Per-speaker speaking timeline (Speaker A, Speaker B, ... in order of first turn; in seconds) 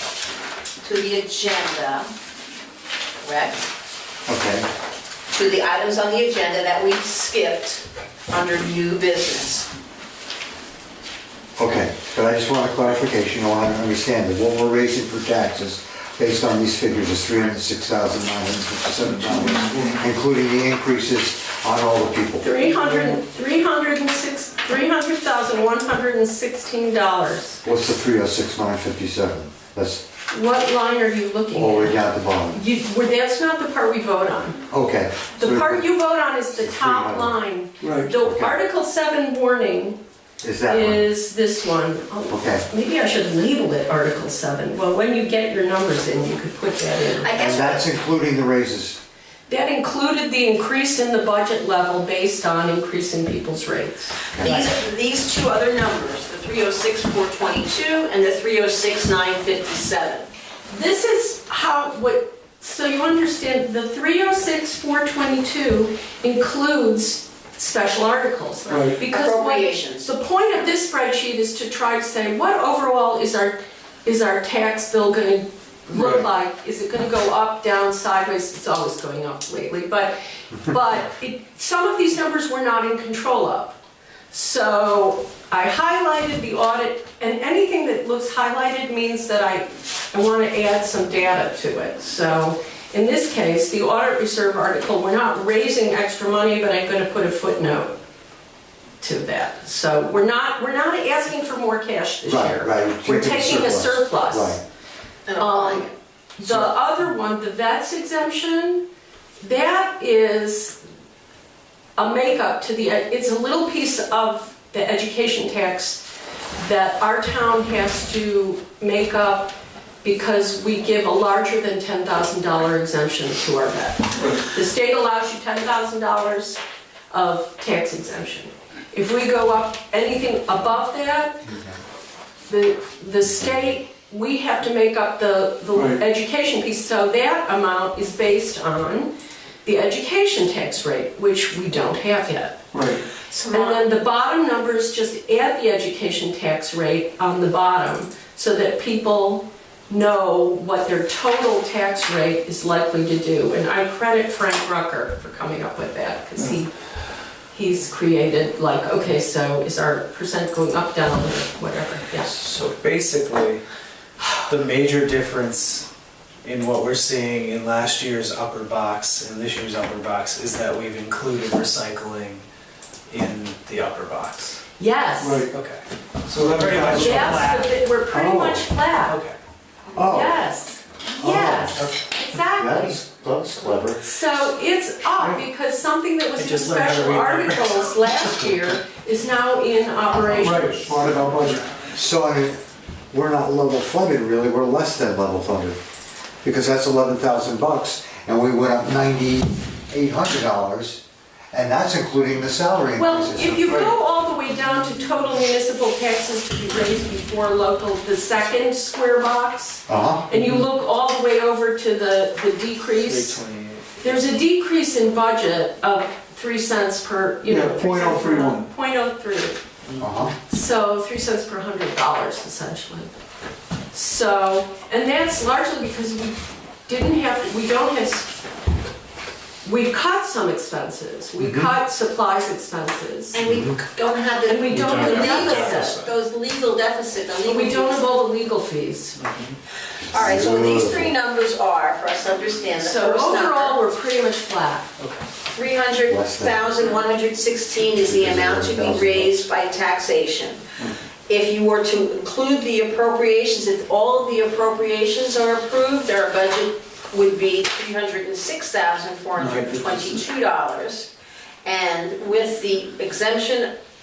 Speaker A: 0.8-2.1, 3.2-3.6, 5.3-9.7, 47.2-47.9, 54.4-60.3, 69.0-70.1, 105.3-105.9, 143.3-143.9, 233.3-238.1, 240.1-243.8, 245.5-250.6, 251.3-261.1, 261.6-263.7
Speaker B: 4.3-4.7, 11.6-22.5, 27.6-30.0, 31.5-32.6, 34.7-35.9, 36.5-37.4, 38.1-38.6, 40.4-41.1, 42.3-42.7, 47.3-49.0, 54.3-54.7, 102.3-104.6, 131.4-131.8, 179.9-180.4, 181.2-181.9, 182.6-184.1, 191.9-195.8, 196.4-203.8, 209.9-210.3, 220.0-220.4, 231.4-231.7, 233.4-233.8, 240.1-241.1, 246.1-246.7, 248.0-249.4
Speaker C: 22.4-27.6, 30.3-34.6, 35.3-40.0, 40.7-47.4, 49.5-54.5, 60.7-83.8, 84.3-97.9, 99.0-104.6, 105.4-108.8, 109.4-110.8, 112.0-116.0, 116.6-131.4, 132.5-139.1, 139.6-142.7, 143.5-156.7, 157.5-162.7, 174.8-175.5, 176.9-179.2, 180.0-183.0, 184.0-191.1, 203.0-213.4, 214.0-219.6, 220.5-223.1, 223.9-228.5, 229.6-233.4, 234.5-236.1, 237.4-239.2, 242.7-244.9
Speaker D: 37.8-38.1, 68.7-69.0, 135.7-136.0, 142.7-143.0, 175.2-175.5, 176.3-177.5, 190.4-191.7, 203.6-203.9, 217.5-218.7
Speaker E: 162.6-163.6, 164.5-165.9, 166.4-172.4, 173.1-174.6, 175.5-177.8, 179.0-179.3, 186.3-188.1, 210.3-210.6, 212.9-214.2, 234.7-236.1, 239.2-239.6, 245.0-245.2